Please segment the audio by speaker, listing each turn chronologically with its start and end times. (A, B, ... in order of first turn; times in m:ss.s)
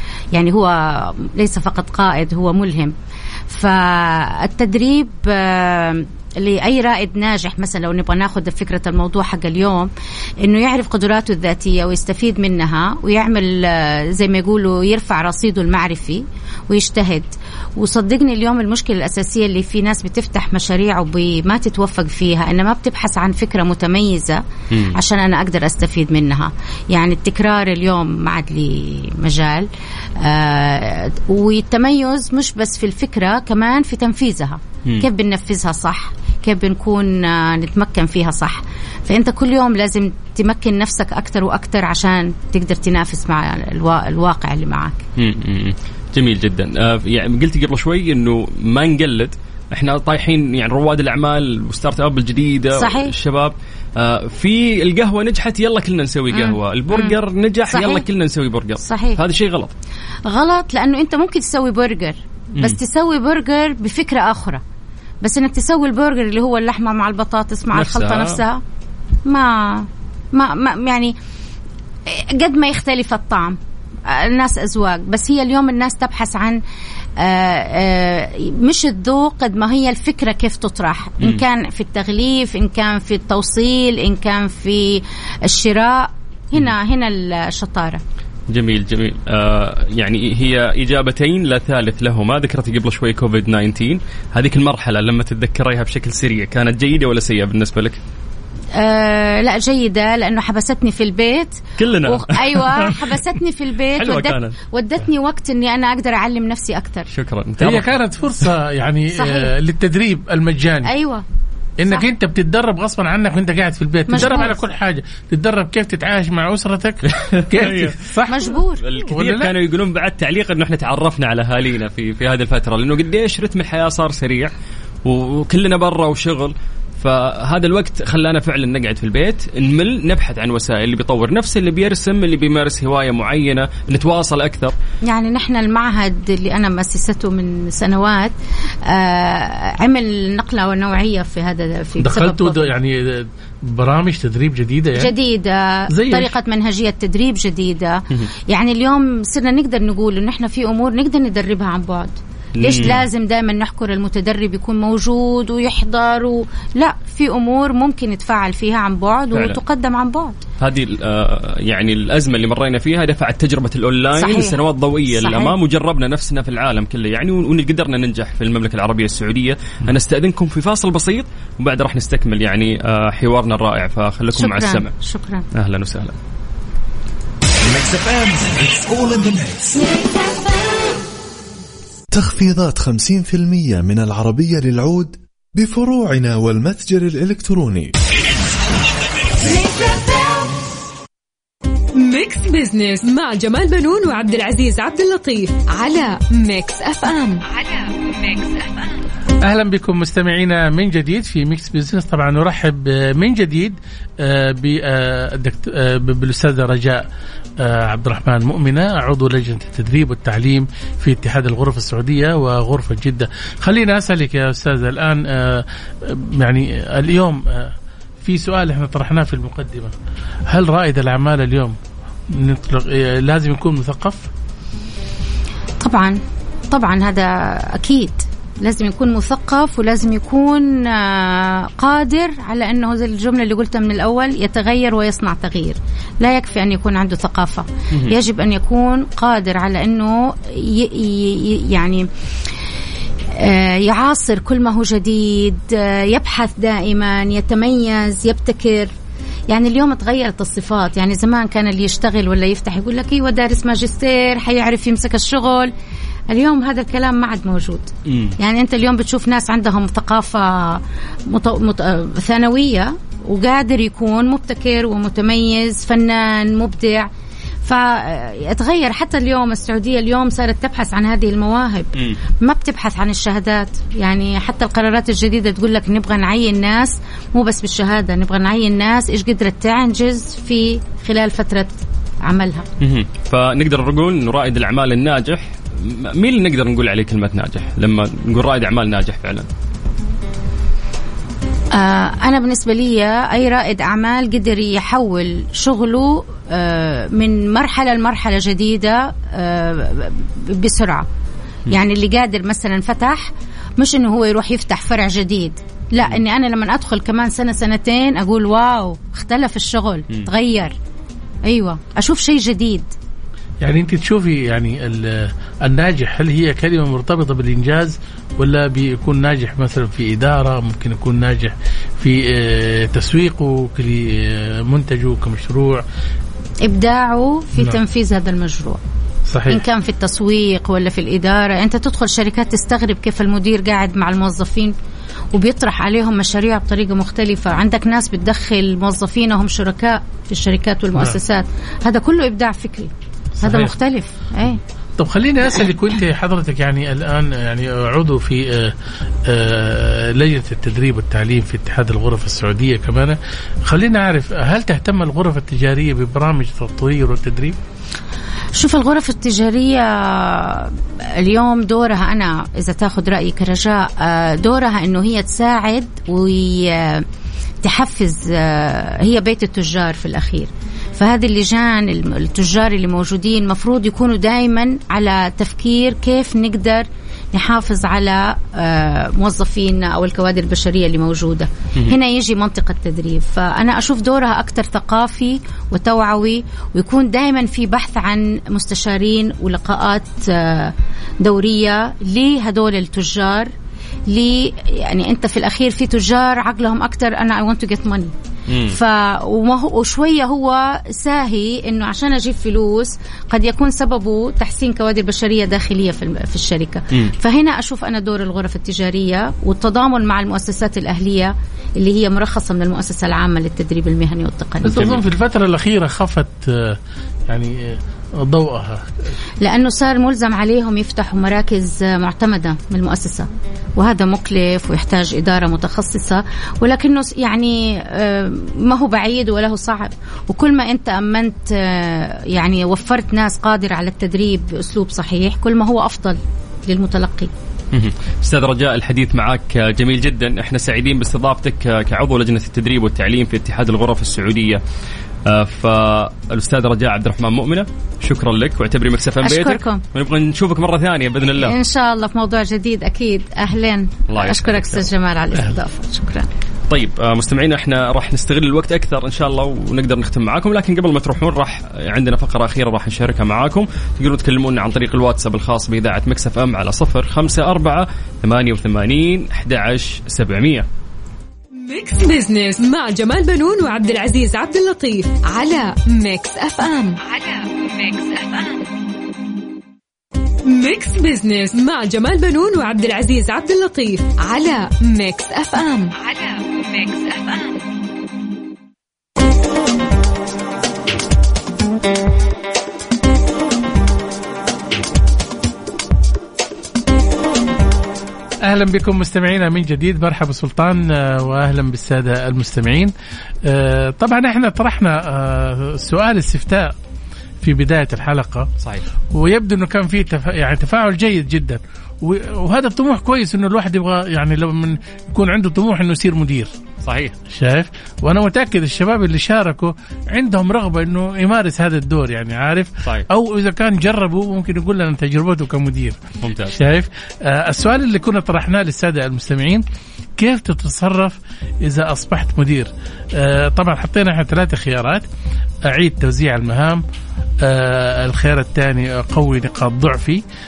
0:00.3-0:03.0 A
0:03.5-0:09.9 A
0:10.4-0:29.7 A
0:24.7-0:25.0 B
0:30.2-0:45.0 A
0:45.2-0:59.7 B
0:52.8-0:53.1 A
0:56.3-0:58.0 A
0:58.8-0:59.2 A
1:00.3-1:04.6 A
1:05.2-1:08.6 A
1:07.7-1:08.4 B
1:09.3-1:11.2 A
1:12.1-1:16.6 A
1:17.2-1:28.0 A
1:28.5-1:38.0 B
1:38.8-1:47.1 A
1:41.8-1:43.0 B
1:43.9-1:44.6 B
1:47.1-1:47.9 B
1:47.6-1:50.9 C
1:49.1-1:49.5 A
1:50.8-1:51.2 A
1:51.8-1:58.5 C
1:54.1-1:54.6 A
1:57.1-1:58.0 B
1:58.3-1:58.8 A
1:58.8-2:04.5 B
1:59.1-1:59.5 C
2:05.0-2:14.8 B
2:15.1-2:22.7 A
2:22.0-2:25.1 C
2:25.0-2:40.4 A
2:25.9-2:26.3 C
2:32.6-2:33.0 B
2:39.3-2:39.6 B
2:40.6-2:54.9 B
2:44.2-2:45.6 A
2:54.4-2:55.4 A
2:55.5-2:56.2 B
2:57.6-2:59.8 D
3:02.1-3:07.9 D
3:09.4-3:10.0 D
3:12.0-3:18.9 E
3:19.4-3:27.1 C
3:27.6-3:39.9 C
3:40.5-3:41.8 C
3:42.3-3:44.3 C
3:45.8-4:02.1 A
4:03.4-4:08.9 A
4:09.5-4:15.7 A
4:16.3-4:27.1 A
4:18.1-4:18.4 B
4:27.6-4:42.7 A
4:42.8-4:49.5 B
4:51.7-5:01.1 A
5:01.7-5:10.8 A
5:11.4-5:12.9 A
5:13.6-5:25.8 C
5:26.6-5:28.8 A
5:29.3-5:29.6 C
5:29.5-5:34.8 A
5:35.3-5:42.9 A
5:43.4-5:43.7 C
5:43.4-5:44.6 A
5:45.0-5:57.6 C
5:58.6-6:07.0 A
6:07.6-6:33.5 A
6:34.1-6:38.1 A
6:38.5-6:38.8 B
6:38.7-6:55.0 A
6:54.6-6:59.1 C
6:54.7-6:55.0 B
6:59.4-7:17.3 A
7:17.7-7:24.6 B
7:25.3-7:31.6 B
7:29.2-7:29.8 A
7:31.3-7:36.3 A
7:34.1-7:34.8 B
7:36.7-7:50.7 B
7:51.5-7:58.6 E
8:00.4-8:07.5 E
8:18.4-8:22.9 C
8:23.4-8:26.7 C
8:27.4-8:28.5 C
8:29.1-8:36.5 C
8:36.8-8:37.2 B
8:37.3-8:49.6 C
8:46.2-8:46.6 B
8:50.2-8:55.1 C
8:55.6-8:56.8 C
8:57.4-9:00.2 C